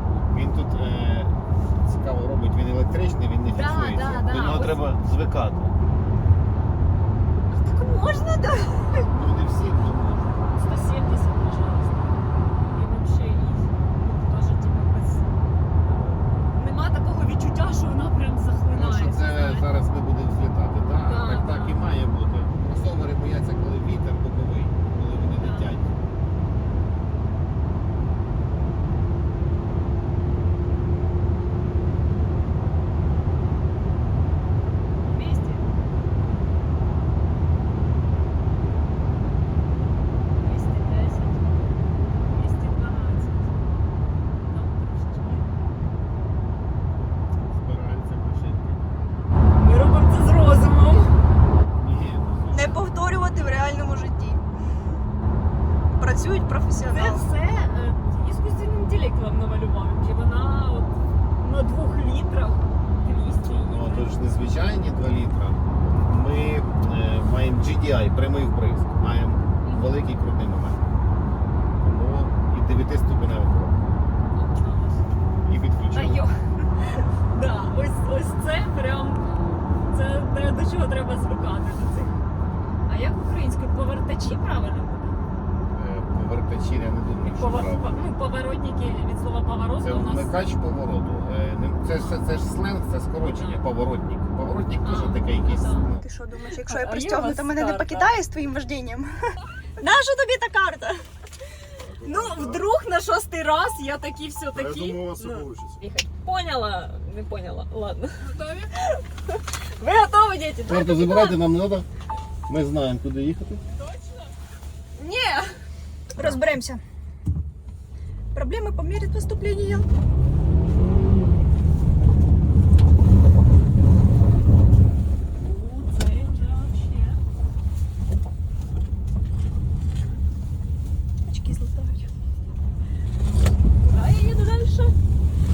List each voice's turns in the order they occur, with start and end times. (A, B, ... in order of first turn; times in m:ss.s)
0:00.3-0:05.8 A
0:03.5-0:04.8 B
0:07.5-0:08.9 B
0:09.1-0:10.4 A
0:10.6-0:12.2 B
0:12.7-0:15.3 B
0:15.9-0:19.7 B
0:18.7-0:26.0 A
0:21.0-0:21.8 B
0:25.4-0:25.7 B
0:35.0-0:35.7 B
0:40.4-0:41.5 B
0:42.3-0:43.5 B
0:44.5-0:45.5 B
0:47.5-0:48.8 A
0:49.6-0:51.1 B
0:51.8-0:52.9 A
0:52.5-0:54.4 C
0:56.0-0:57.3 C
0:56.9-1:04.1 B
1:03.5-1:10.8 A
1:09.6-1:09.9 B
1:11.8-1:13.8 A
1:14.2-1:15.2 B
1:15.4-1:16.2 A
1:15.9-1:16.3 B
1:16.9-1:19.2 B
1:19.9-1:22.2 B
1:22.9-1:25.2 B
1:25.7-1:28.0 A
1:27.2-1:30.4 B
1:29.8-1:36.1 A
1:33.3-1:33.6 B
1:34.8-1:35.9 B
1:35.9-1:39.1 C
1:36.5-1:38.1 B
1:39.8-1:41.0 C
1:41.8-1:42.7 A
1:42.0-1:51.4 B
1:44.5-1:45.8 A
1:50.7-1:51.9 A
1:52.5-1:53.6 A
1:55.0-1:55.5 B
1:56.2-1:56.8 C
1:58.3-1:59.9 C
2:05.4-2:07.2 B
2:11.3-2:12.1 C
2:13.8-2:14.9 B